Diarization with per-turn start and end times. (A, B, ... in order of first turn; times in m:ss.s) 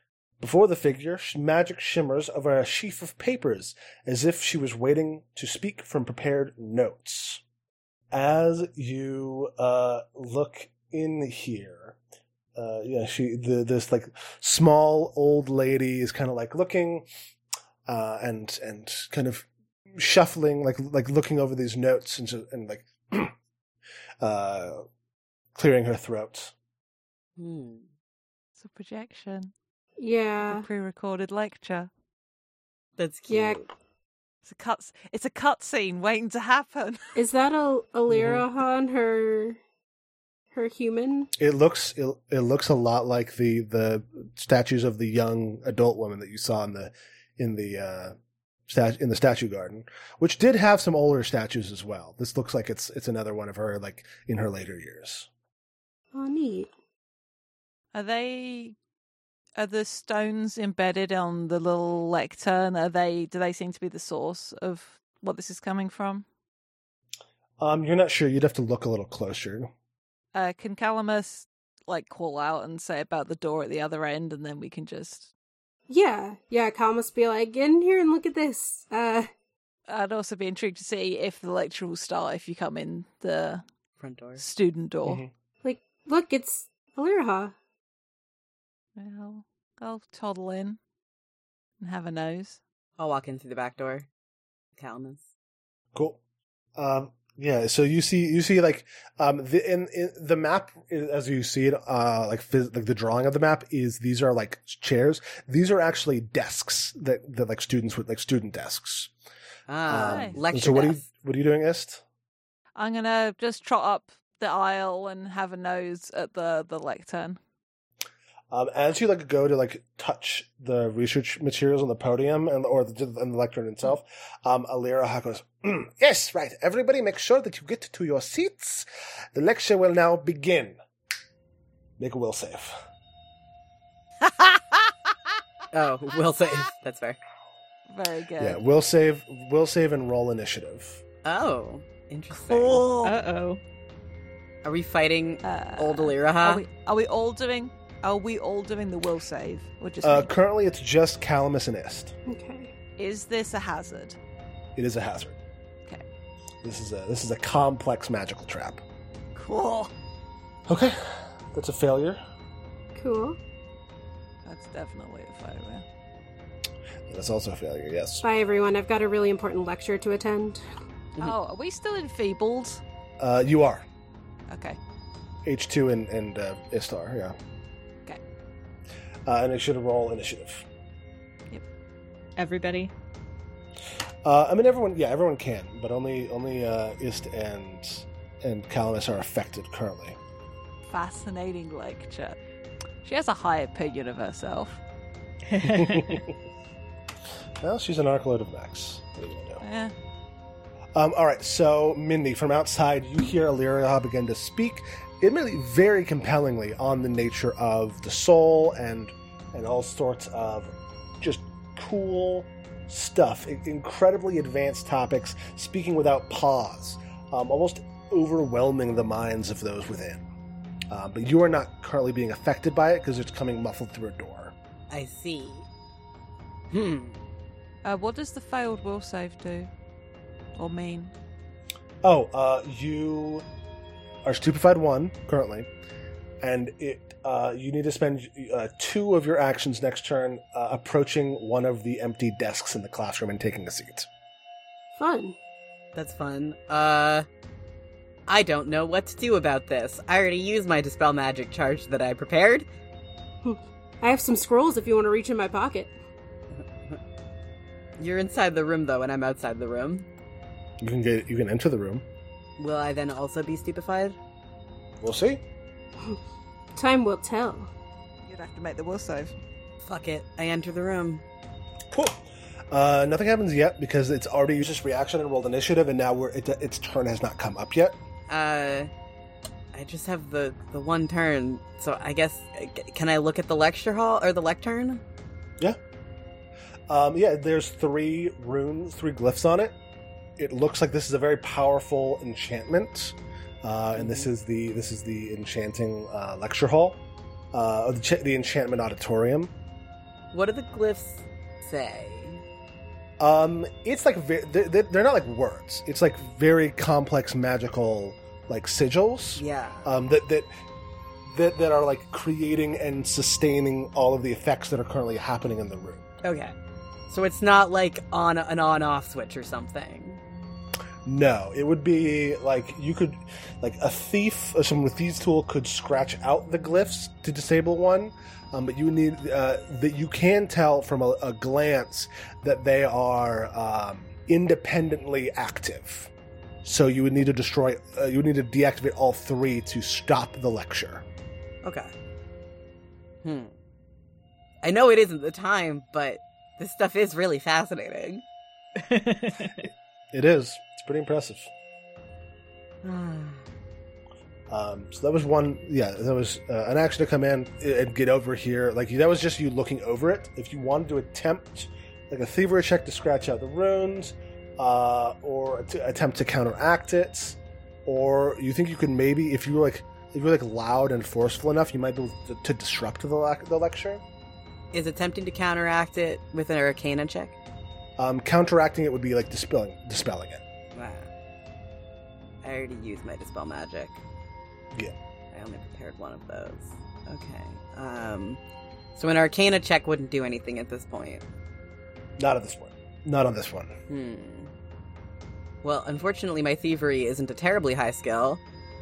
0:00.4-0:07.4 A
0:08.1-0:12.0 A
0:12.6-0:17.1 A
0:17.9-0:23.3 A
0:24.2-0:24.8 A
0:25.5-0:26.5 A
0:27.4-0:27.9 B
0:28.6-0:29.5 C
0:30.0-0:30.6 D
0:30.4-0:31.9 C
0:33.0-0:33.7 B
0:33.3-0:33.6 D
0:34.4-0:37.1 C
0:37.2-0:39.6 D
0:38.1-0:38.4 A
0:40.5-0:41.3 D
0:41.4-0:48.1 A
0:48.7-0:55.3 A
0:56.1-0:56.7 D
0:57.9-0:58.7 C
0:59.6-1:06.2 C
1:07.6-1:09.7 A
1:10.3-1:15.3 C
1:15.9-1:19.3 D
1:19.9-1:23.6 C
1:24.0-1:24.4 B
1:24.4-1:25.2 C
1:25.0-1:25.3 A
1:25.6-1:27.5 D
1:29.0-1:30.8 C
1:31.8-1:32.6 C
1:33.0-1:34.1 B
1:34.8-1:35.2 B
1:35.9-1:36.2 A
1:36.8-1:49.1 A
1:49.7-1:51.0 B
1:49.9-1:52.0 A
1:49.9-1:50.4 C
1:52.7-1:57.4 C
1:58.5-2:10.8 A
2:12.0-2:12.8 A
2:14.2-2:14.9 C
2:15.7-2:17.2 B
2:17.9-2:18.6 C
2:18.4-2:21.0 A
2:21.2-2:22.8 B
2:22.3-2:23.2 C
2:23.0-2:23.6 E
2:24.6-2:26.6 B
2:25.4-2:30.3 C
2:30.0-2:32.1 A
2:32.3-2:32.7 D
2:33.0-2:34.2 C
2:34.8-2:35.4 A
2:36.6-2:38.8 A
2:39.3-2:39.9 C
2:40.7-2:42.2 A
2:43.0-2:43.4 D
2:44.4-2:45.8 C
2:47.1-2:48.2 A
2:48.2-2:50.6 D
2:51.2-2:52.8 C
2:53.2-2:53.8 A
2:54.5-2:54.8 C
2:55.4-2:57.3 A
2:59.2-3:00.6 A
3:02.4-3:02.9 E
3:04.2-3:10.2 A
3:10.8-3:12.4 C
3:13.0-3:14.8 C
3:15.5-3:16.0 E
3:15.6-3:16.3 A
3:17.6-3:19.6 A
3:19.6-3:19.9 C
3:20.9-3:40.2 A
3:40.9-3:44.5 A
3:44.9-3:45.6 B
3:46.7-3:47.1 B
3:47.8-3:49.7 C
3:50.6-3:51.1 C
3:52.0-3:53.4 A
3:54.2-3:55.7 A
3:56.4-4:04.1 A
4:05.0-4:05.4 D
4:05.9-4:07.2 B
4:08.3-4:12.6 B
4:13.4-4:15.9 D
4:18.0-4:20.1 B
4:20.8-4:22.0 A
4:22.6-4:24.2 B
4:25.0-4:25.4 A
4:26.8-4:27.7 D
4:28.2-4:29.3 C
4:29.8-4:31.2 B
4:31.9-4:38.0 A
4:38.3-4:38.9 B
4:39.7-4:45.0 B
4:46.9-4:49.8 A
4:50.4-4:57.0 A
4:54.0-4:54.3 B
4:57.5-4:59.5 A
5:00.3-5:02.4 B
5:03.2-5:10.5 A
5:09.4-5:09.8 B
5:11.2-5:16.0 A
5:16.2-5:16.5 B
5:17.1-5:20.2 B
5:21.0-5:36.1 A
5:36.6-5:41.0 A
5:41.6-5:41.9 B
5:43.2-5:43.5 B
5:44.6-5:48.2 B
5:48.8-5:49.6 E
5:50.1-5:51.5 A
5:52.8-5:53.4 B
5:54.5-6:14.0 A
6:14.7-6:17.3 B
6:18.0-6:20.4 A
6:20.7-6:21.1 B
6:22.4-6:24.0 B
6:25.3-6:28.4 B
6:29.0-6:31.2 B
6:32.2-6:33.7 A
6:33.9-6:34.5 B
6:35.6-6:38.4 B